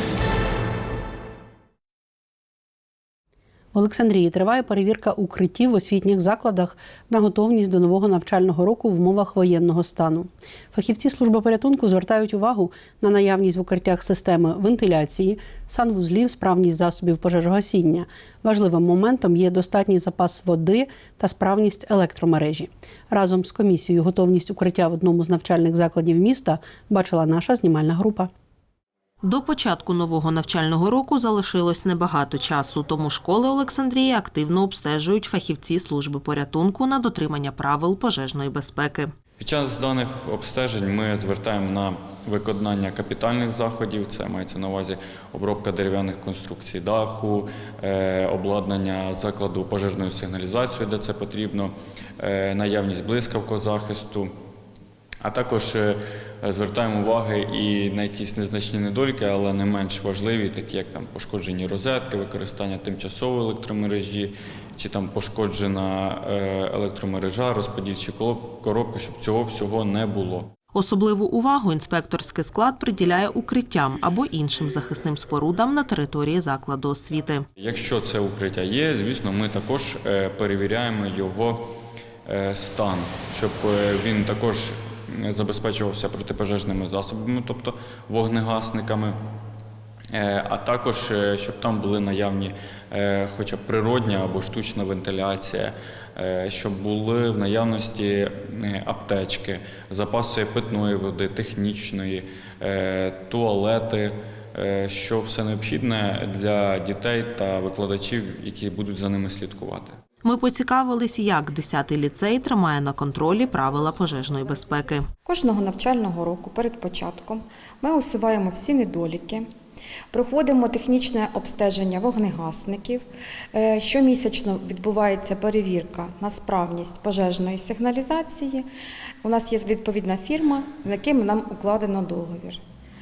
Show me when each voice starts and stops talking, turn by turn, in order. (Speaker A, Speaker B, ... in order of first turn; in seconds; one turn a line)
Speaker A: 3.7-28.3
Speaker B: 29.2-39.1
Speaker C: 39.4-54.3
Speaker C: 55.2-70.5
Speaker B: 70.7-77.5
Speaker C: 77.6-81.7
Speaker C: 82.2-89.2
Speaker C: 90.1-110.0
Speaker B: 110.2-115.1
Speaker D: 115.2-119.5
Speaker D: 120.1-128.7
Speaker D: 129.2-132.6